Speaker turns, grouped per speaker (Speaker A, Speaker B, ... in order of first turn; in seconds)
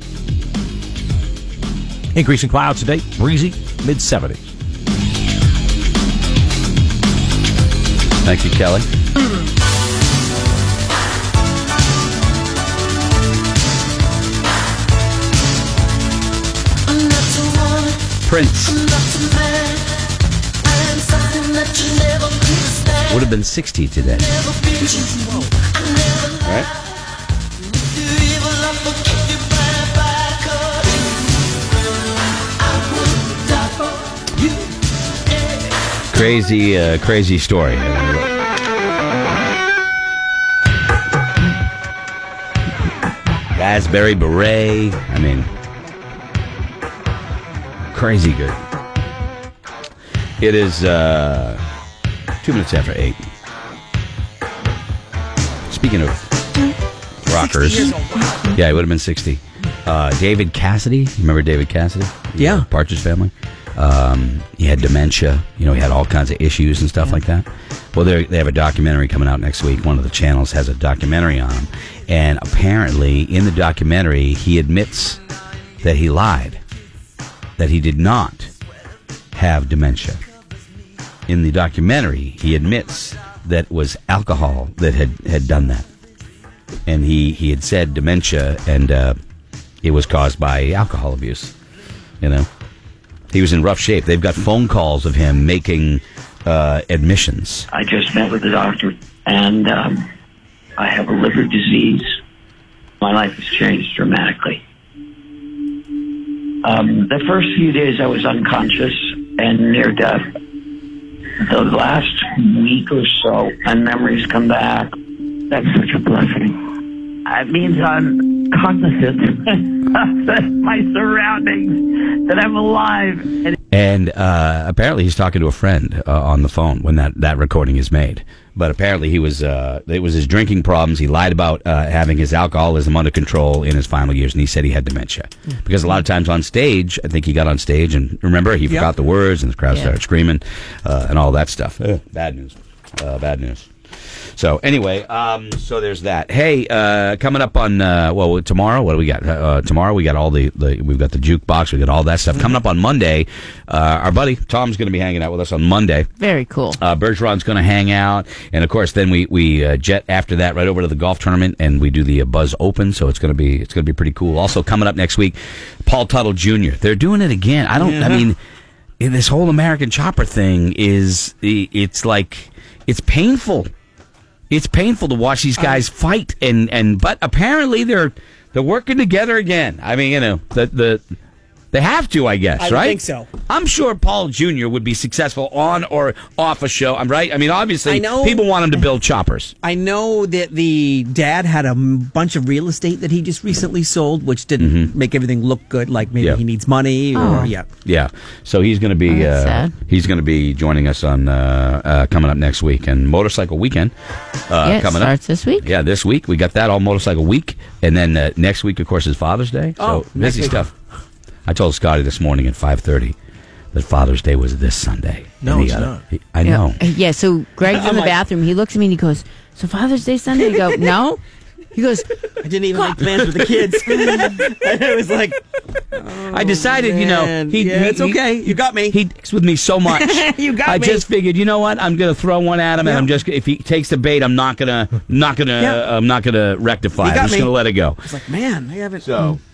Speaker A: 2.1-4.5, 215.4-216.0
Speaker B: 8.2-8.8, 18.2-18.8, 23.1-24.3, 26.4-26.7, 36.1-38.3, 43.5-45.5, 47.9-48.6, 50.4-51.6, 52.4-53.2, 55.7-56.3, 57.2-57.9, 58.5-75.2, 75.8-76.6, 77.6-78.5, 79.3-80.2, 81.3-85.8, 86.9-89.2, 89.8-91.5, 92.2-92.5, 93.3-97.7, 123.7-143.7, 144.3-156.1, 156.8-168.4, 169.0-173.7, 174.5-181.0, 181.7-189.5, 194.6-194.9, 197.8-203.9, 204.5-210.7, 211.4-213.1, 213.7-216.8, 226.3-238.1, 239.0-239.4
Speaker C: 17.1-17.8, 19.0-19.4, 21.0-22.4, 156.2-156.8, 197.1-197.5, 199.1-199.7, 204.6-205.7, 216.4-221.2, 221.7-222.1
Speaker D: 57.3-58.6, 62.4-62.6, 167.8-168.2, 182.6-183.3, 187.8-188.5, 189.6-197.7, 209.8-210.7, 217.7-218.2, 222.4-225.4, 225.9-229.0, 229.9-231.0, 232.8-233.1, 235.6-235.8, 237.0-237.5, 238.0-239.4
Speaker E: 97.7-100.1, 100.8-102.1, 103.0-104.6, 106.6-110.2, 111.4-115.0, 115.5-116.6, 117.2-123.5